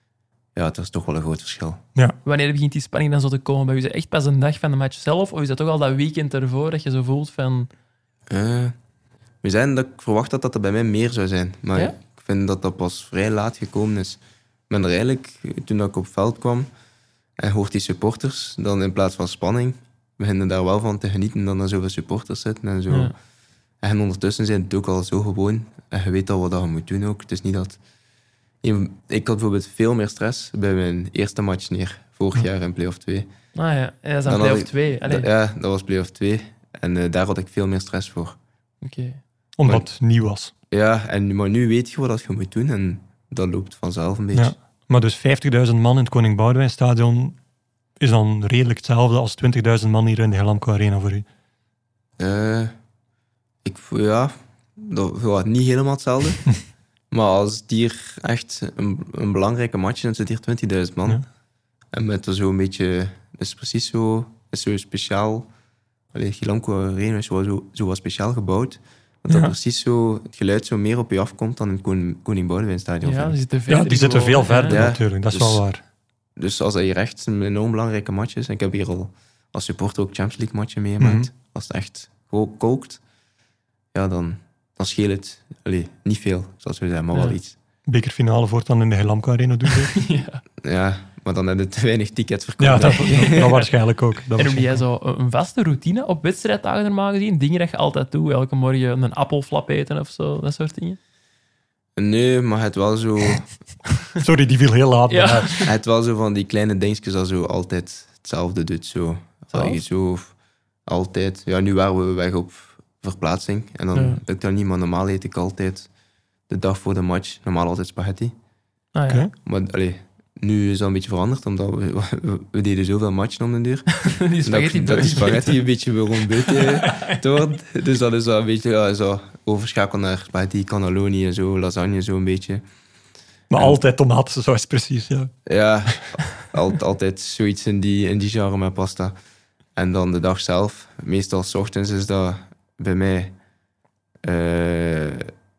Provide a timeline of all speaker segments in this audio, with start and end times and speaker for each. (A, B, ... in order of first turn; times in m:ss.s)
0:00.6-0:01.8 A
0:02.2-0:07.7 B
0:08.3-0:08.8 A
0:09.4-0:16.7 A
0:17.4-0:23.1 A
0:23.8-0:27.8 A
0:28.6-0:33.3 A
0:33.6-0:35.3 B
0:34.3-0:38.4 A
0:38.8-0:39.2 B
0:39.6-0:40.5 C
0:40.7-0:44.5 A
0:44.3-0:47.4 C
0:48.0-0:51.2 C
0:52.2-0:52.7 A
0:53.6-0:56.4 A
0:57.1-1:01.2 A
1:01.9-1:05.5 A
1:06.1-1:13.4 A
1:09.3-1:09.6 C
1:13.0-1:14.8 B
1:13.7-1:15.8 C
1:14.7-1:15.6 A
1:16.4-1:23.0 A
1:21.0-1:21.3 C
1:23.9-1:27.6 A
1:27.9-1:30.0 C
1:29.9-1:30.4 B
1:30.6-1:33.5 A
1:32.6-1:34.8 C
1:32.8-1:33.6 B
1:34.4-1:41.0 B
1:42.0-1:43.5 A
1:44.2-1:45.7 C
1:45.1-1:45.6 B
1:45.6-1:50.3 A
1:49.5-1:49.8 B
1:50.9-1:55.9 A
1:53.9-1:54.2 B
1:56.5-1:58.3 A
1:59.0-1:59.3 B
1:59.4-2:12.6 A
2:04.0-2:05.6 B
2:06.4-2:07.2 B
2:13.5-2:15.3 C
2:15.5-2:19.2 A
2:19.8-2:23.4 A
2:24.2-2:25.3 A